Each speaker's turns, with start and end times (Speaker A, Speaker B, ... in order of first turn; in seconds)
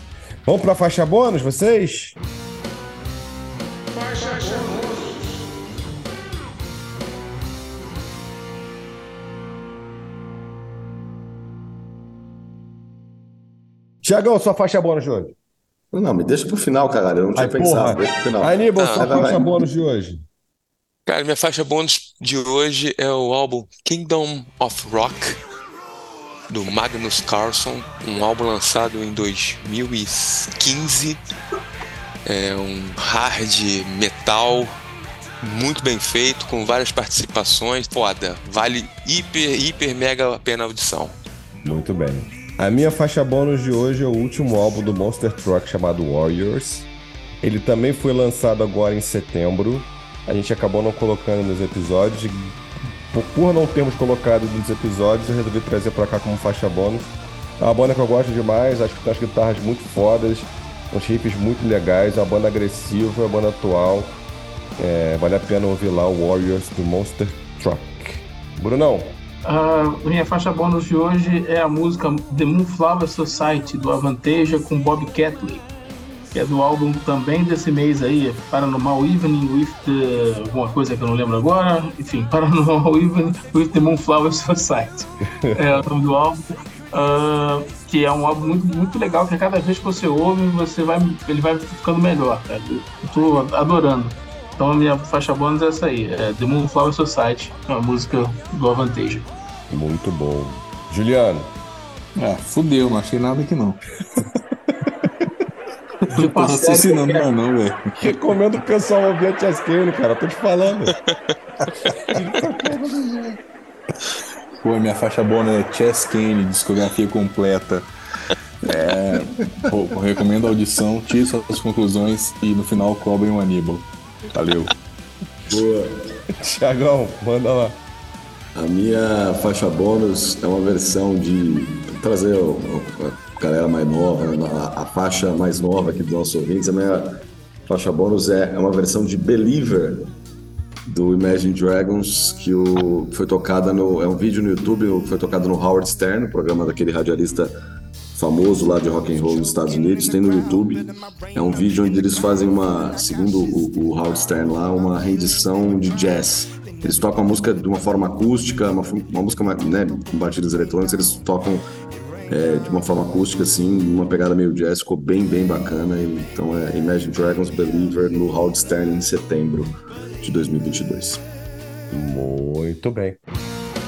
Speaker A: 0.4-2.2, 14.0-15.3, 17.4-20.2, 41.6-46.9, 47.4-52.6, 53.1-64.2, 64.8-69.1, 85.4-85.8, 99.7-101.5, 108.0-110.9, 112.1-113.4, 126.4-127.8, 171.9-173.2
Speaker B: 15.9-19.5, 125.5-126.0, 128.5-140.1, 140.9-147.5, 148.1-161.6, 162.3-171.2
Speaker C: 18.8-19.1, 21.1-25.4, 26.5-31.2, 32.2-34.8, 35.4-41.2, 111.7-112.1
Speaker D: 69.4-75.7, 76.3-99.3, 106.1-107.3
Speaker E: 102.2-104.9, 106.0-108.0, 114.6-117.9, 118.6-124.7